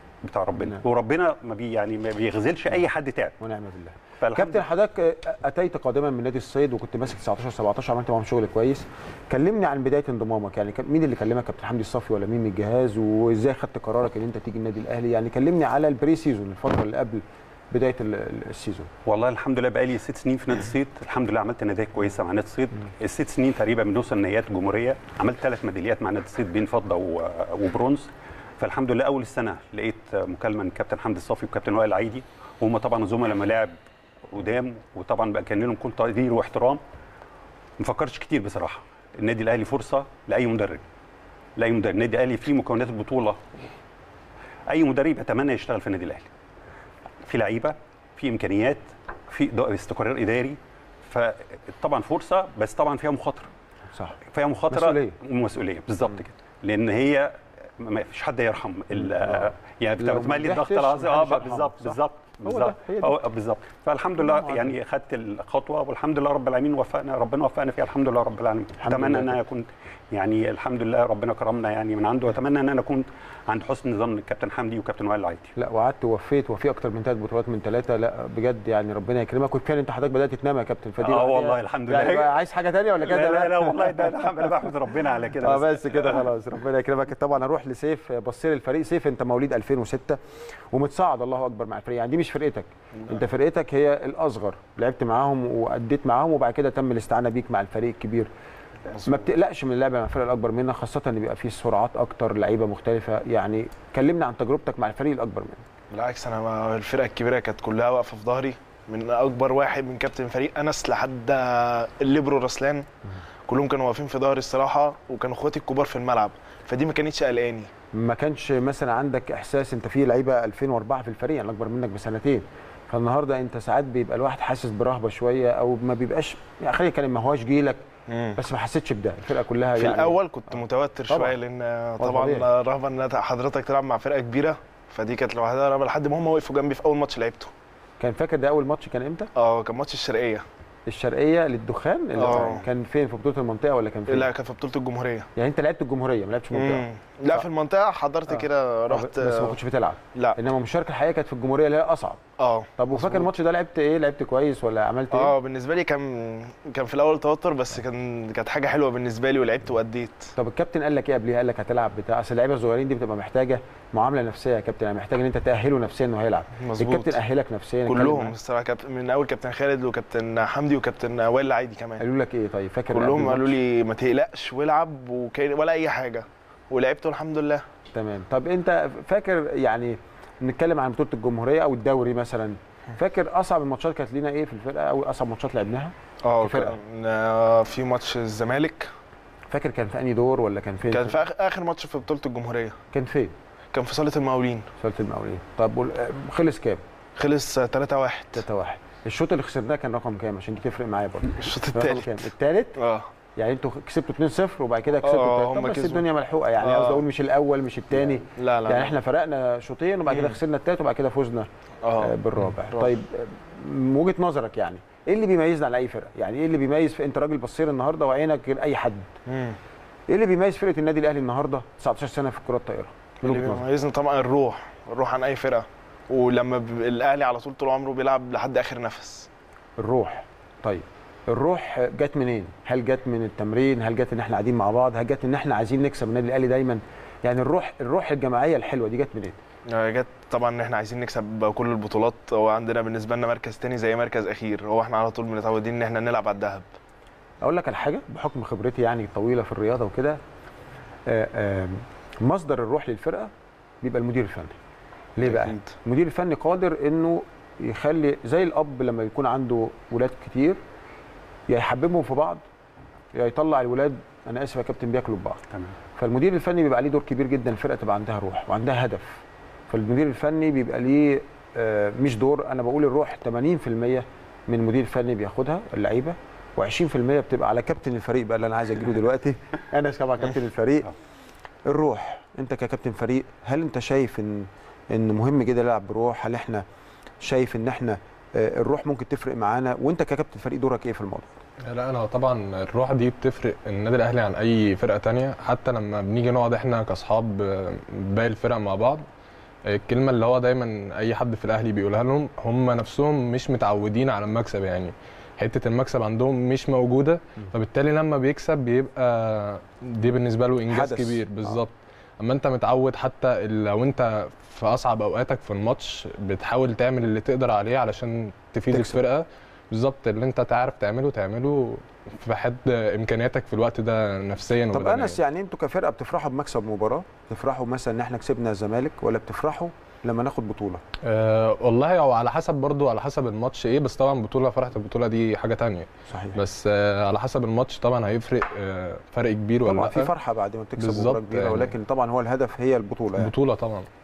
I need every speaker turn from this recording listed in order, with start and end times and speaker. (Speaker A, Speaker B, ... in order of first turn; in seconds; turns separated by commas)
Speaker A: 0.2-3.4, Speaker B: 3.4-18.9, Speaker A: 4.2-4.7, Speaker A: 19.1-33.8, Speaker A: 34.3-36.8, Speaker A: 37.8-40.8, Speaker A: 41.6-43.6, Speaker A: 44.7-46.3, Speaker A: 47.2-53.5, Speaker A: 54.3-75.5, Speaker B: 54.7-55.1, Speaker B: 59.0-63.2, Speaker B: 64.2-64.7, Speaker B: 68.8-69.4, Speaker B: 75.6-84.6, Speaker A: 81.0-82.3, Speaker A: 83.0-86.2, Speaker B: 85.4-90.2, Speaker B: 90.7-98.3, Speaker C: 98.9-99.3, Speaker B: 99.0-105.6, Speaker C: 105.9-112.9, Speaker C: 113.5-117.7, Speaker B: 117.9-127.8, Speaker C: 128.1-128.4, Speaker B: 128.4-130.5, Speaker C: 129.8-137.5, Speaker B: 131.1-131.4, Speaker B: 132.0-132.5, Speaker B: 138.0-139.3, Speaker C: 139.4-140.4, Speaker B: 140.9-144.3, Speaker C: 142.2-142.6, Speaker C: 144.1-145.3, Speaker B: 145.4-147.4, Speaker C: 146.5-149.6, Speaker B: 148.3-152.2, Speaker C: 152.4-153.3, Speaker B: 152.8-155.3, Speaker C: 155.1-160.3, Speaker B: 160.4-168.3, Speaker C: 166.6-167.2, Speaker C: 167.9-172.0, Speaker B: 172.0-173.5, Speaker C: 172.9-177.6, Speaker B: 177.9-186.8, Speaker C: 186.3-188.9, Speaker B: 189.5-191.2, Speaker C: 190.9-192.8, Speaker B: 192.9-193.3, Speaker C: 193.7-194.6, Speaker B: 194.8-196.8, Speaker C: 197.2-198.4, Speaker B: 198.3-202.7, Speaker C: 201.3-203.1, Speaker B: 203.4-211.5, Speaker C: 205.0-206.1, Speaker C: 206.6-207.0, Speaker C: 207.9-208.9, Speaker C: 210.1-210.4, Speaker C: 211.8-212.9, Speaker B: 212.0-219.1, Speaker C: 219.3-219.6, Speaker B: 220.1-223.6, Speaker C: 223.2-229.3, Speaker B: 229.8-239.4, Speaker C: 239.7-246.7, Speaker B: 247.4-250.2, Speaker B: 251.1-253.3, Speaker B: 253.8-254.6, Speaker B: 255.2-260.6, Speaker C: 255.2-255.7, Speaker B: 261.5-262.4, Speaker B: 263.1-265.4, Speaker B: 266.0-269.2, Speaker B: 269.7-280.9, Speaker B: 281.7-286.6, Speaker B: 287.2-291.4, Speaker D: 291.7-299.0, Speaker D: 299.7-325.2, Speaker B: 310.7-311.6, Speaker B: 318.7-319.0, Speaker B: 324.7-330.8, Speaker D: 331.0-340.1, Speaker B: 336.1-336.4, Speaker B: 339.7-343.3, Speaker D: 340.8-341.8, Speaker D: 343.2-343.9